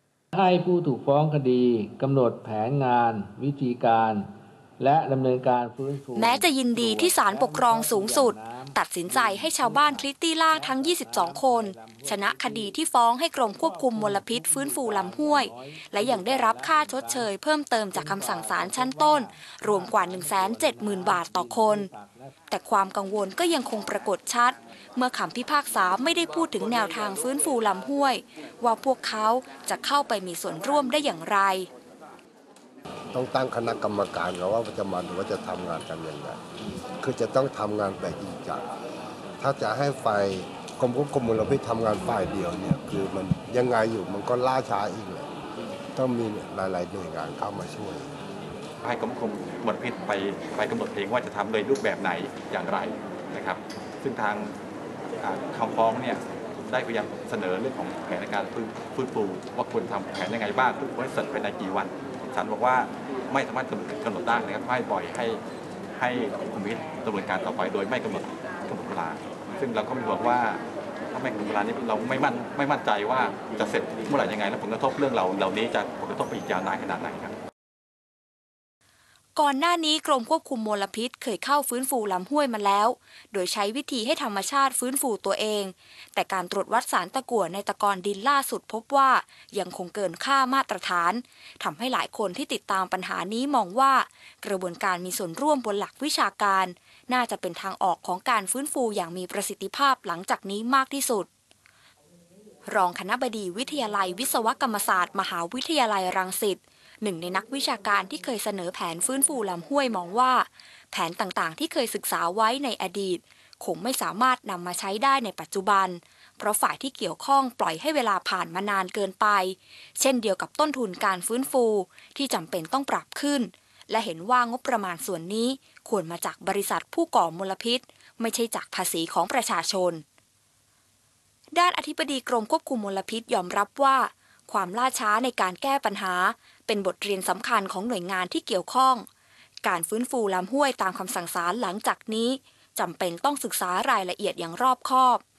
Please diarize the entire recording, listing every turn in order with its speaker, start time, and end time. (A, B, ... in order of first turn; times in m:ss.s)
0:00.3-0:12.8 A
0:06.2-0:21.9 B
0:13.5-0:17.3 A
0:17.9-0:22.4 A
0:22.5-0:31.7 B
0:33.1-0:36.4 C
0:37.0-0:38.7 C
0:39.4-0:45.3 C
0:46.0-0:48.1 C
0:48.8-0:54.6 D
0:55.2-1:05.4 D
1:06.0-1:17.4 D
1:19.4-1:41.3 B
1:42.7-2:10.0 B
2:11.5-2:19.1 B
2:19.6-2:25.2 B